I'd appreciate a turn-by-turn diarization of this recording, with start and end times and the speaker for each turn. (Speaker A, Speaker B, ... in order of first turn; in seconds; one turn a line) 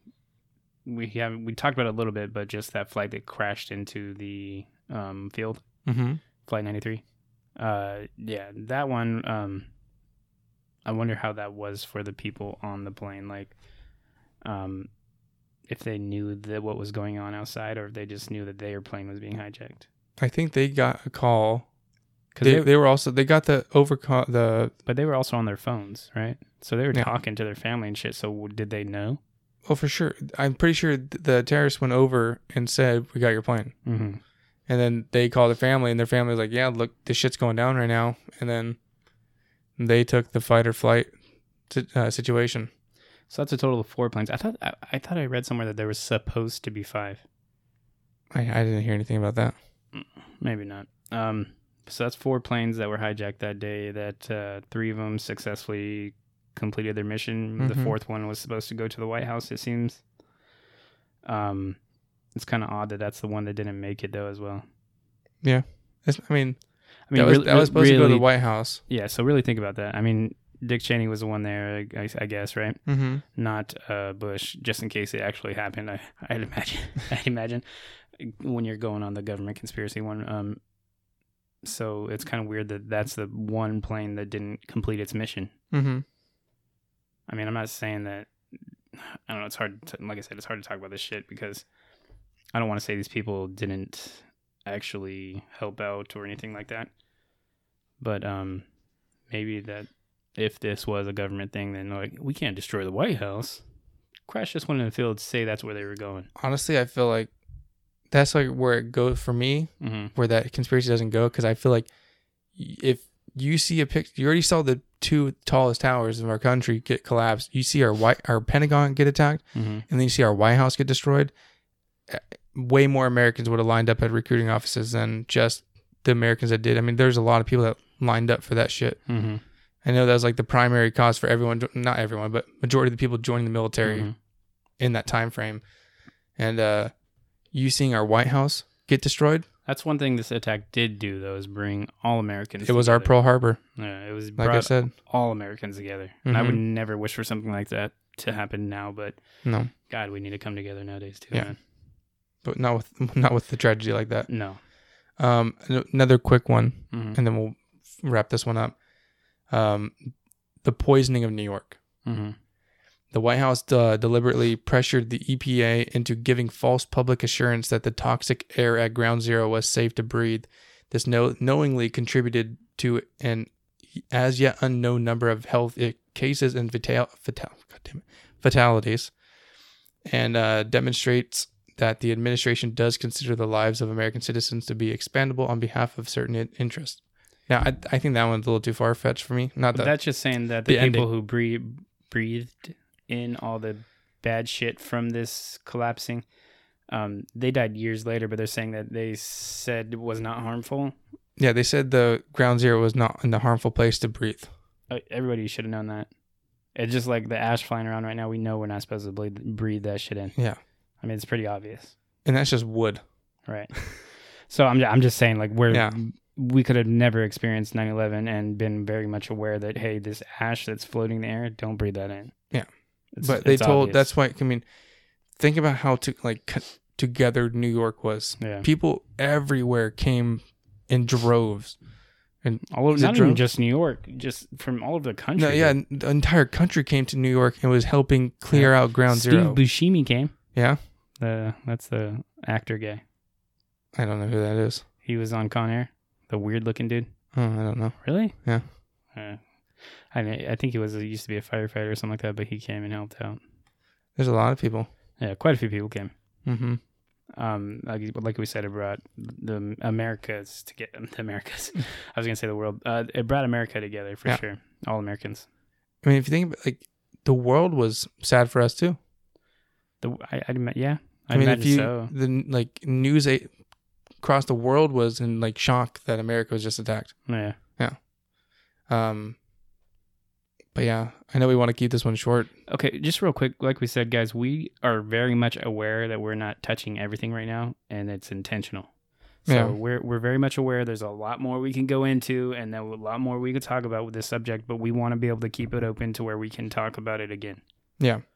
Speaker A: 0.8-5.6
Speaker B: 5.8-6.2
Speaker A: 6.4-7.0
Speaker A: 7.5-9.7
Speaker A: 10.8-13.5
Speaker A: 14.4-14.9
Speaker A: 15.7-19.9
Speaker B: 20.2-21.7
Speaker A: 22.3-22.7
Speaker B: 22.4-24.7
Speaker A: 24.9-29.2
Speaker B: 29.6-33.8
Speaker A: 33.9-34.2
Speaker B: 34.7-38.8
Speaker B: 39.8-41.1
Speaker B: 41.7-42.7
Speaker A: 43.3-47.2
Speaker B: 48.3-49.5
Speaker A: 49.9-60.0
Speaker B: 57.6-57.9
Speaker A: 61.2-61.8
Speaker A: 62.3-64.6
Speaker B: 65.4-66.6
Speaker A: 67.1-68.3
Speaker B: 67.1-68.8
Speaker A: 68.8-80.6
Speaker B: 72.8-73.2
Speaker A: 81.6-85.5
Speaker B: 85.7-86.0
Speaker A: 87.3-88.4
Speaker A: 88.9-91.7
Speaker A: 92.5-96.9
Speaker A: 98.0-98.6
Speaker A: 99.3-103.6
Speaker A: 104.3-106.3
Speaker B: 106.4-107.3
Speaker B: 108.1-111.9
Speaker A: 109.8-110.1
Speaker B: 112.5-121.3
Speaker A: 119.5-119.8
Speaker B: 122.1-129.1
Speaker A: 129.1-129.4
Speaker B: 129.8-134.1
Speaker A: 133.8-134.1
Speaker B: 134.8-135.6
Speaker B: 136.4-136.9
Speaker B: 137.5-139.4
Speaker A: 139.7-143.1
Speaker B: 142.6-143.6
Speaker A: 143.7-149.2
Speaker B: 144.4-144.9
Speaker B: 146.2-146.6
Speaker B: 149.4-149.7
Speaker A: 149.8-151.6
Speaker B: 152.4-154.3
Speaker A: 154.3-154.6
Speaker B: 155.2-158.8
Speaker A: 156.9-157.2
Speaker B: 159.5-161.8
Speaker A: 162.0-162.3
Speaker B: 163.1-179.1
Speaker B: 180.1-189.9
Speaker A: 189.7-196.2
Speaker B: 190.6-191.1
Speaker A: 196.9-200.9
Speaker B: 201.4-204.5
Speaker A: 204.9-206.1
Speaker A: 206.7-210.4
Speaker A: 211.0-211.9
Speaker B: 212.2-213.0
Speaker A: 213.4-222.5
Speaker B: 215.7-216.0
Speaker B: 222.5-224.6
Speaker A: 223.1-224.1
Speaker B: 225.3-231.8
Speaker A: 228.4-228.7
Speaker B: 232.4-233.4
Speaker A: 232.7-235.8
Speaker B: 235.4-239.6
Speaker A: 238.5-240.5
Speaker B: 240.5-240.8
Speaker A: 241.1-243.0
Speaker B: 243.9-244.8
Speaker A: 245.0-247.1
Speaker B: 247.3-248.7
Speaker A: 248.0-248.5
Speaker A: 249.1-253.4
Speaker B: 254.2-254.9
Speaker A: 255.2-256.1
Speaker B: 256.4-256.8
Speaker A: 257.4-265.5
Speaker B: 266.0-269.0
Speaker A: 270.0-272.1
Speaker B: 271.3-273.5
Speaker B: 274.2-278.1
Speaker A: 277.2-277.6
Speaker B: 278.9-279.4
Speaker B: 280.7-282.5
Speaker A: 282.7-297.6
Speaker B: 289.5-289.8